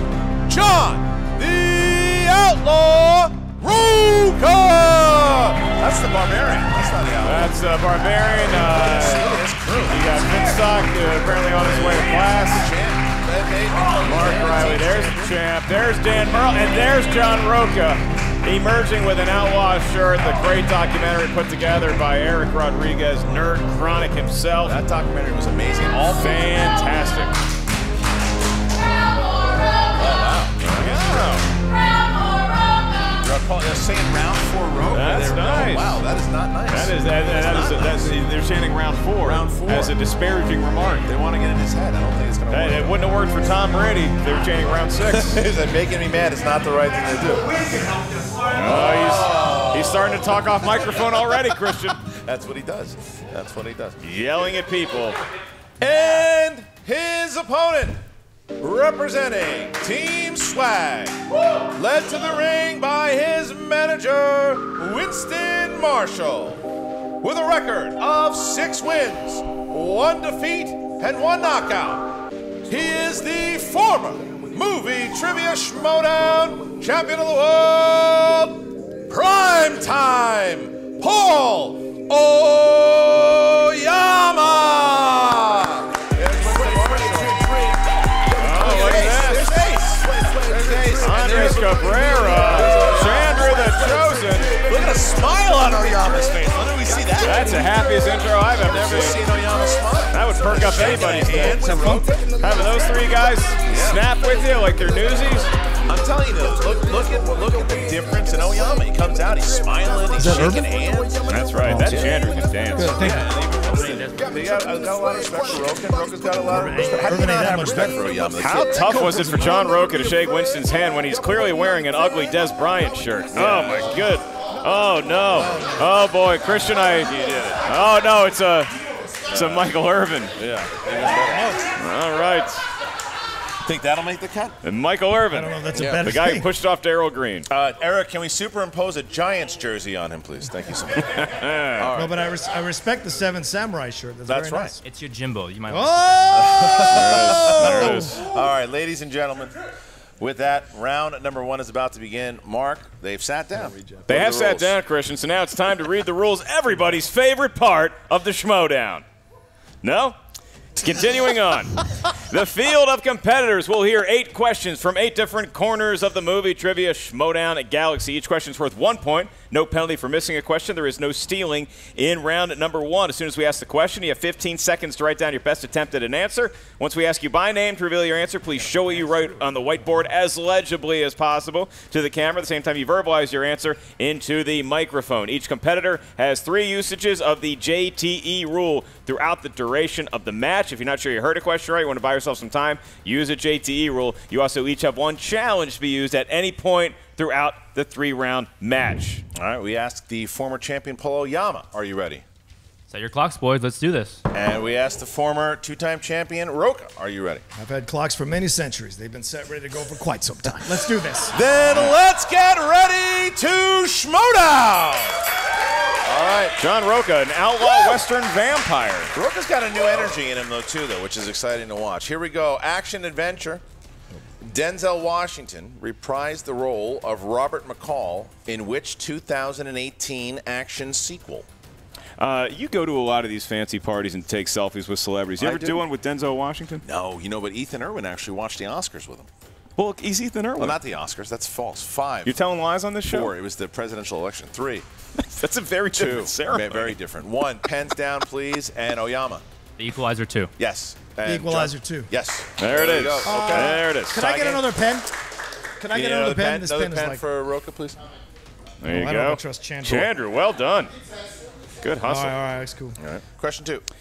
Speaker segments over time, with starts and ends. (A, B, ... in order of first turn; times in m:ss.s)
0:00.5-0:07.6 A
0:07.2-0:12.7 B
0:08.7-0:10.5 A
0:11.5-0:15.4 A
0:14.0-0:24.8 B
0:24.6-0:26.8 A
0:26.1-0:27.4 B
0:30.0-0:31.3 A
0:30.6-0:31.5 B
0:33.2-0:38.2 A
0:34.9-0:36.0 B
0:36.7-0:41.1 B
0:39.2-0:40.0 A
0:41.0-0:43.0 A
0:42.5-0:45.4 B
0:45.0-0:50.9 A
0:48.5-0:52.0 B
0:52.0-0:54.0 A
0:54.0-0:55.2 B
0:55.8-0:58.0 A
0:58.6-1:01.2 A
1:01.7-1:06.6 A
1:07.2-1:12.1 A
1:12.7-1:27.7 A
1:28.4-1:29.6 B
1:28.4-1:37.7 A
1:31.0-1:34.7 B
1:37.2-1:39.3 B
1:38.7-1:42.3 A
1:40.1-1:45.6 B
1:43.6-1:44.0 A
1:45.9-1:52.2 A
1:50.2-1:50.7 C
1:51.3-1:52.9 B
1:51.6-1:52.0 C
1:52.8-1:53.4 C
1:52.9-1:59.6 A
1:53.7-1:54.2 D
1:56.5-1:58.1 C
1:58.4-2:08.7 B
1:58.9-1:59.5 C
2:03.3-2:04.0 A
2:05.4-2:05.8 C
2:07.1-2:07.6 A
2:09.3-2:09.7 A
2:09.3-2:10.4 B
2:10.4-2:11.6 A
2:11.2-2:11.7 C
2:11.8-2:12.7 B
2:13.6-2:14.6 A
2:14.6-2:17.5 B
2:15.3-2:16.5 C
2:15.7-2:16.1 A
2:17.5-2:21.3 A
2:21.1-2:21.9 B
2:21.8-2:22.2 A
2:22.0-2:24.8 C
2:24.3-2:24.8 A
2:24.8-2:26.7 D
2:25.7-2:28.2 C
2:26.4-2:29.6 A
2:26.9-2:28.2 B
2:30.2-2:34.8 A
2:33.6-2:34.0 C
2:34.1-2:39.0 B
2:39.8-2:40.2 B
2:40.8-3:19.2 B
3:19.4-3:22.2 A
3:22.9-3:24.2 D
3:24.3-3:27.4 A
3:27.6-3:31.4 C
3:31.3-3:35.3 A
3:36.0-3:36.6 A
3:36.6-3:39.1 B
3:39.2-3:43.6 A
3:44.4-3:51.5 A
3:52.2-3:56.8 B
3:55.4-3:55.8 A
3:56.8-3:59.3 A
3:59.8-4:00.8 B
4:00.6-4:02.4 A
4:02.2-4:03.3 B
4:03.1-4:04.9 A
4:05.2-4:07.0 B
4:05.9-4:09.4 A
4:09.8-4:10.5 D
4:10.6-4:14.7 A
4:11.2-4:12.1 C
4:12.6-4:14.3 B
4:13.2-4:15.1 C
4:15.8-4:17.2 C
4:15.9-4:18.0 A
4:18.8-4:20.9 B
4:18.9-4:20.1 C
4:21.8-4:22.4 B
4:22.0-4:23.0 C
4:23.0-4:23.9 A